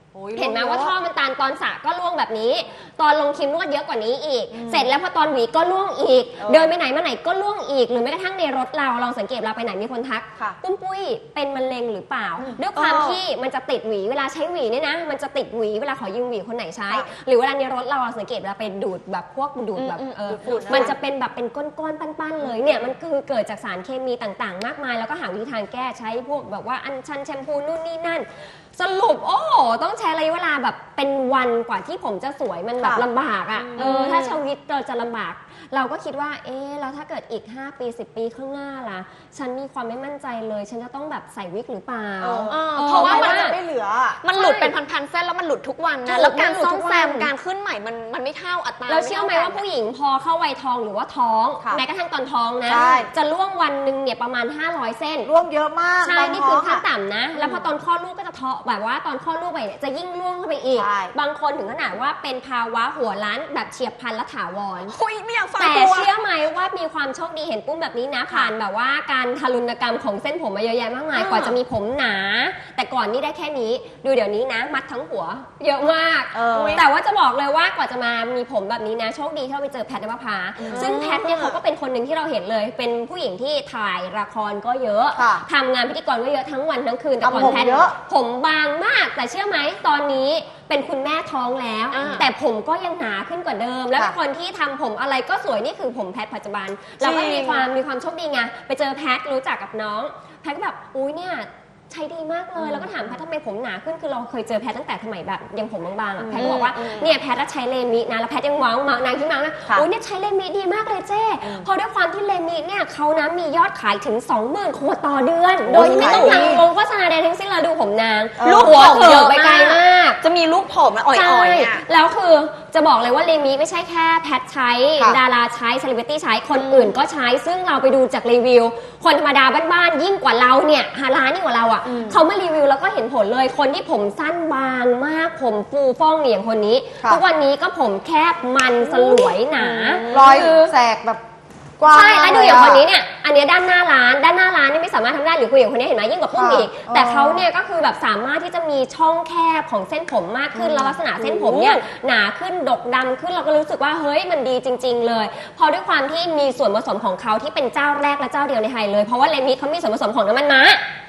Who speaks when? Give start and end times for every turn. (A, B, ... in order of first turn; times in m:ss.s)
0:00.1-0:00.9 A
0:00.3-0:43.6 B
0:04.5-0:04.9 A
0:06.4-0:06.7 A
0:12.6-0:13.2 C
0:19.8-0:20.9 C
0:20.4-0:20.9 A
0:32.8-0:33.0 C
0:33.6-0:34.1 A
0:33.7-0:34.4 C
0:42.2-0:44.7 A
0:42.5-0:43.5 C
0:44.2-0:49.6 C
0:44.4-0:44.7 B
0:46.0-0:47.3 B
0:48.9-0:55.3 B
0:52.6-0:53.1 A
0:55.2-0:56.8 A
0:56.0-1:05.0 B
0:57.4-0:57.6 A
1:00.8-1:01.1 A
1:04.9-1:06.1 C
1:05.6-2:00.2 B
1:11.1-1:11.6 C
1:16.3-1:16.8 A
1:16.5-1:16.8 C
1:20.6-1:20.9 A
1:20.6-1:21.6 C
1:25.1-1:25.4 A
1:27.2-1:27.9 A
1:31.9-1:32.3 C
1:37.0-1:37.7 C
1:42.6-1:42.9 A
1:46.2-1:46.6 A
1:46.3-1:47.1 C
1:55.7-1:56.6 A
1:55.7-1:56.6 C
1:58.4-1:58.8 A
1:58.4-2:01.8 C
2:01.1-2:20.7 B
2:11.8-2:12.2 A
2:19.0-2:19.3 A
2:19.6-2:20.6 C
2:20.0-2:21.2 A
2:21.8-2:22.8 A
2:21.9-2:40.8 B
2:26.3-2:27.4 A
2:30.5-2:30.9 A
2:31.2-2:31.8 C